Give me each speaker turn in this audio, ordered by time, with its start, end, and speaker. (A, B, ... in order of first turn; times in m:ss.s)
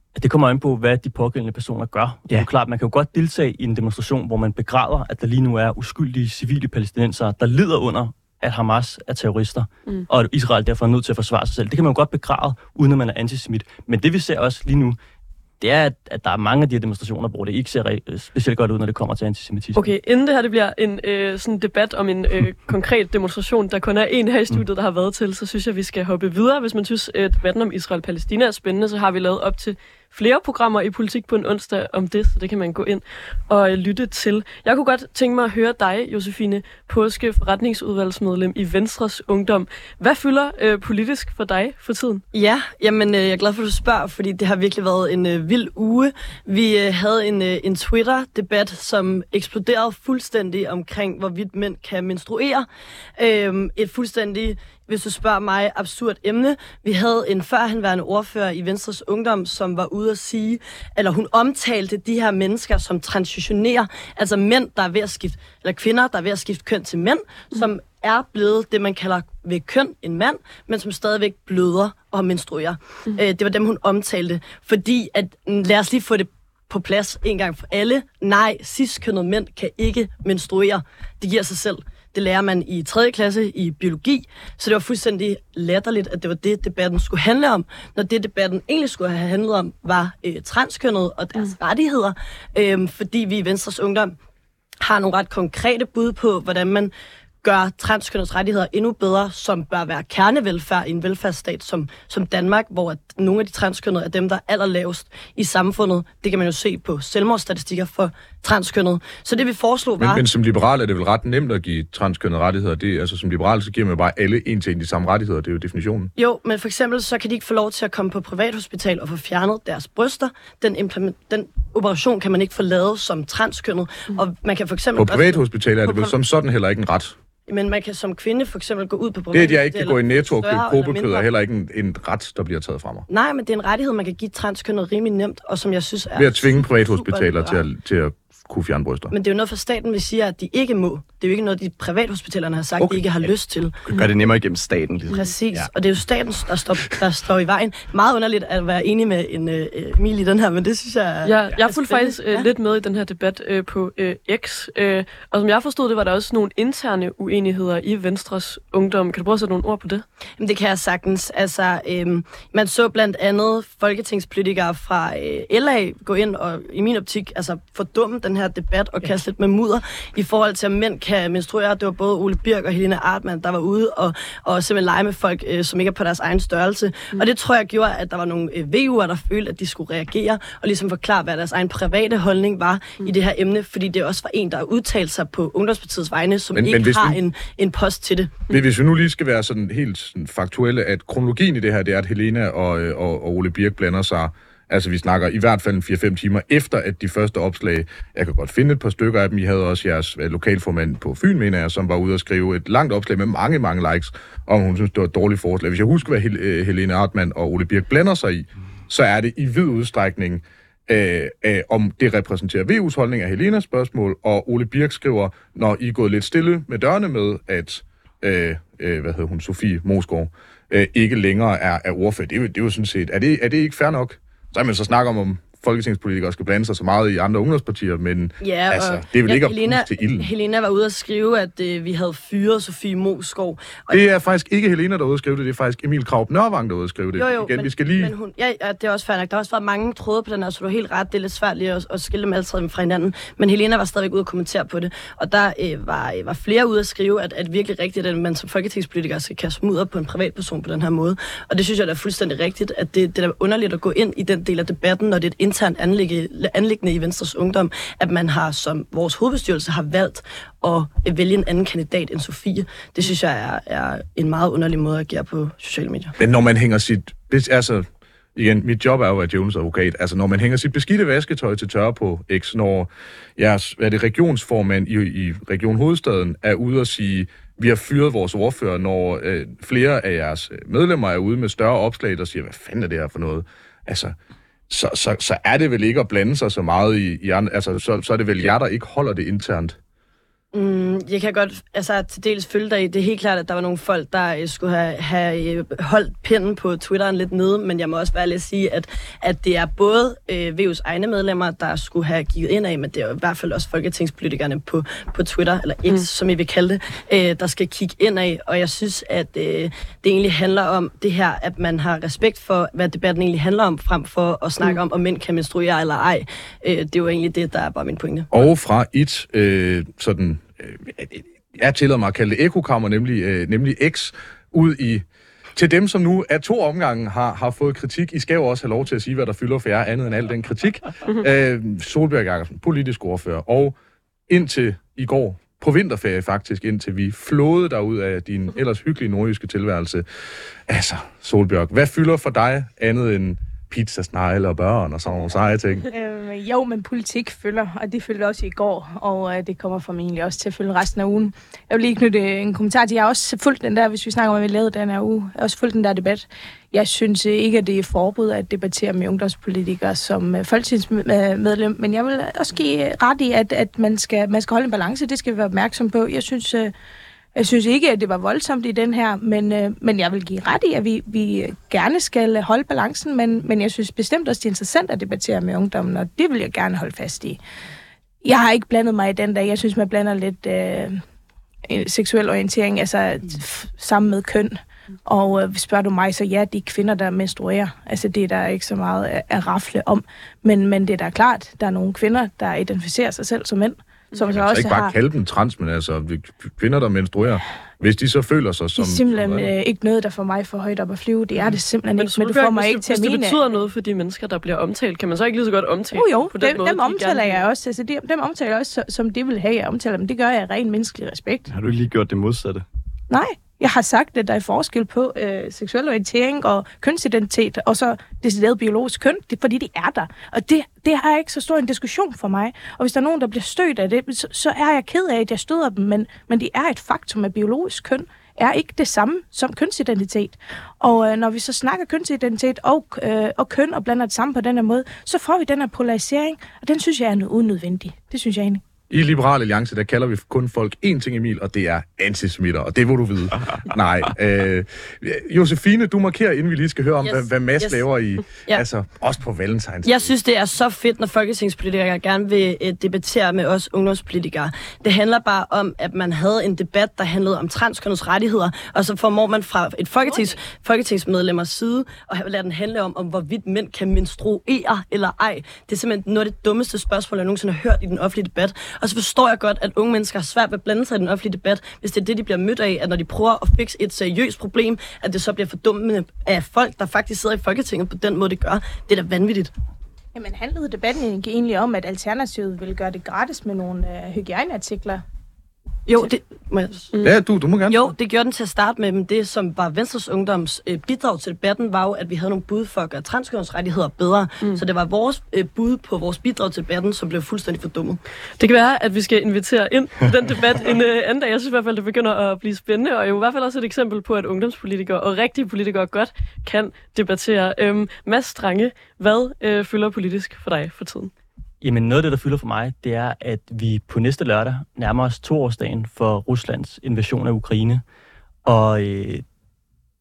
0:00.2-0:15.0 A
0:15.6-0:19.9 A
0:19.8-0:42.2 B
0:42.3-1:34.2 C
1:34.8-1:36.9 C
1:37.4-1:50.3 C
1:50.0-1:56.1 D
1:56.2-2:06.1 C
2:05.0-2:07.2 D
2:07.5-2:11.3 C
2:09.3-2:13.1 D
2:13.1-2:17.6 C
2:16.2-2:19.1 D
2:19.1-2:23.8 C
2:23.9-2:25.7 E
2:25.1-2:32.5 C
2:31.2-2:40.0 B
2:40.4-3:08.5 C
3:06.6-3:07.2 D
3:08.5-3:50.3 D
3:48.4-3:54.0 C
3:53.9-3:58.1 D
3:57.2-4:26.2 C
4:26.2-4:44.1 D
4:44.7-4:49.8 D
4:50.5-5:18.3 C
5:18.3-5:33.8 D
5:34.3-5:40.0 D
5:40.7-5:45.9 D
5:45.9-6:06.7 F
6:07.4-6:17.4 F
6:18.2-6:21.0 F
6:21.7-6:34.9 F
6:34.3-6:39.5 D
6:38.8-6:43.4 F
6:42.0-6:47.4 B
6:45.9-6:51.5 F
6:51.5-6:52.6 E
6:53.1-7:18.6 F
7:18.9-7:30.1 D
7:27.0-7:27.8 C
7:28.4-7:28.6 C
7:29.8-7:59.5 C
8:00.2-8:05.0 F
8:05.9-8:07.1 C
8:07.0-8:07.9 D
8:07.7-8:18.0 C
8:18.4-8:31.1 B
8:31.6-8:37.8 A
8:38.4-8:39.2 A